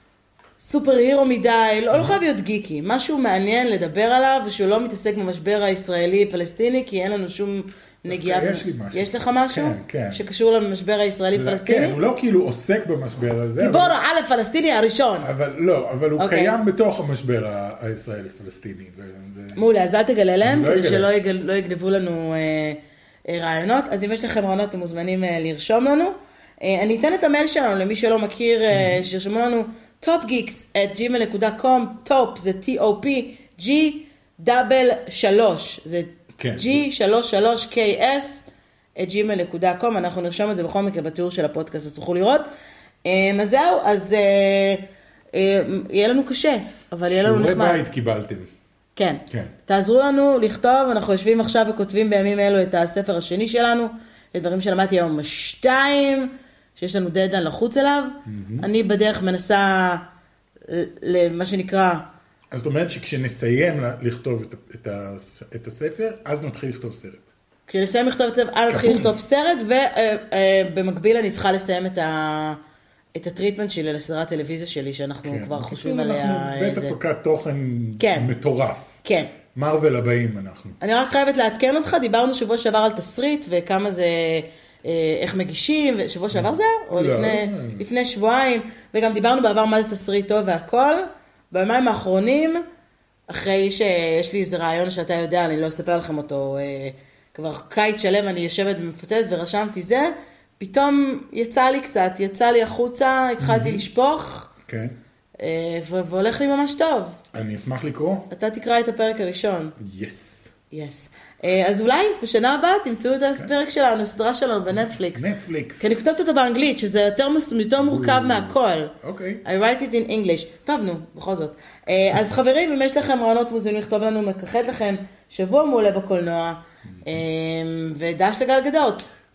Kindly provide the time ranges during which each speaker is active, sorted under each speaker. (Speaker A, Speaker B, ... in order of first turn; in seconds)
Speaker A: 0.6-12.0, 13.6-15.3, 16.2-16.6, 19.6-42.5, 43.0-47.8, 49.0-60.1, 60.7-62.1, 67.7-72.6, 73.2-77.0, 78.0-78.3, 79.0-79.3, 80.8-92.6, 93.3-104.5, 105.4-107.2, 108.3-109.8, 110.7-115.3, 115.8-129.1
Speaker B: 8.1-10.2, 11.3-13.9, 15.2-19.7, 20.4-21.1, 28.7-29.0, 36.4-36.8, 47.1-48.5, 49.3-49.5, 58.3-58.7, 62.5-67.3, 68.7-69.2, 75.2-79.0, 79.5-80.8, 86.3-87.9, 103.4-103.8, 104.7-105.0, 107.3-108.3, 109.8-110.5, 115.1-115.9, 117.8-119.4